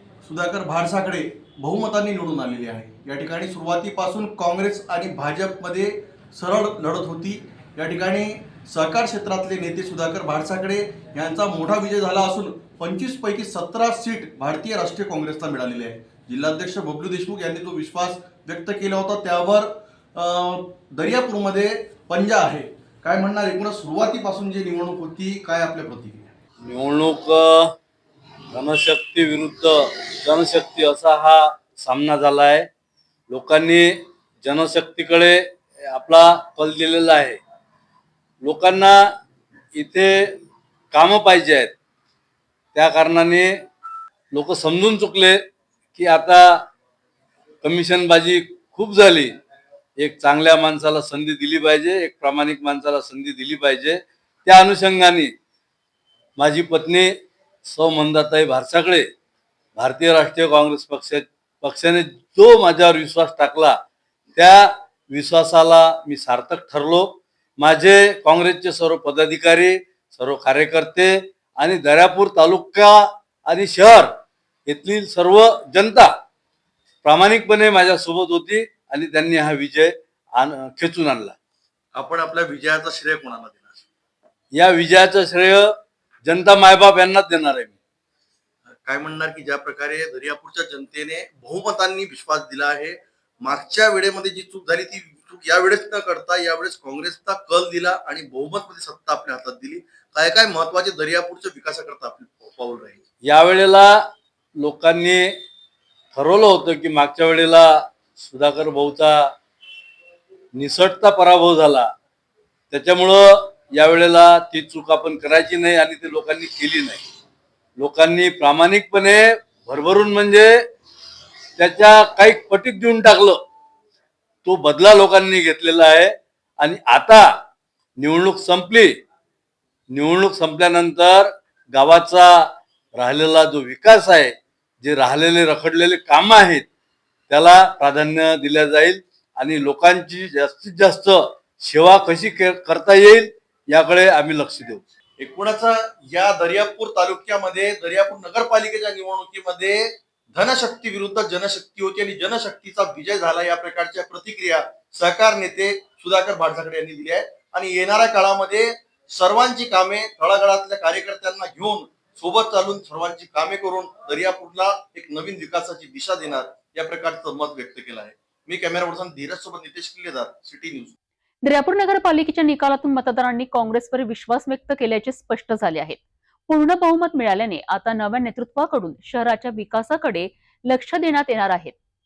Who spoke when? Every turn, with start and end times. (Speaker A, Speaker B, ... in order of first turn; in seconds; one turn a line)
Speaker A: 0.2-26.3
Speaker B: 26.6-27.7
Speaker B: 28.5-32.7
Speaker B: 33.3-37.4
Speaker B: 38.4-39.1
Speaker B: 39.8-40.4
Speaker B: 40.9-41.7
Speaker B: 42.7-43.5
Speaker B: 44.3-45.4
Speaker B: 45.9-46.6
Speaker B: 47.6-49.3
Speaker B: 50.0-55.3
Speaker B: 56.4-57.1
Speaker B: 57.6-59.0
Speaker B: 59.8-63.8
Speaker B: 64.3-74.1
Speaker B: 74.7-76.1
Speaker B: 77.0-81.3
Speaker A: 82.0-83.8
Speaker B: 84.5-85.7
Speaker B: 86.2-87.7
Speaker A: 88.8-103.0
Speaker B: 103.3-104.0
Speaker B: 104.6-105.3
Speaker B: 106.1-109.3
Speaker B: 110.5-111.9
Speaker B: 112.7-117.0
Speaker B: 117.8-120.5
Speaker B: 121.6-123.4
Speaker B: 124.5-127.3
Speaker B: 128.0-128.9
Speaker B: 129.9-132.4
Speaker B: 132.9-136.7
Speaker B: 137.3-144.8
Speaker A: 145.2-170.9
Speaker C: 171.4-181.8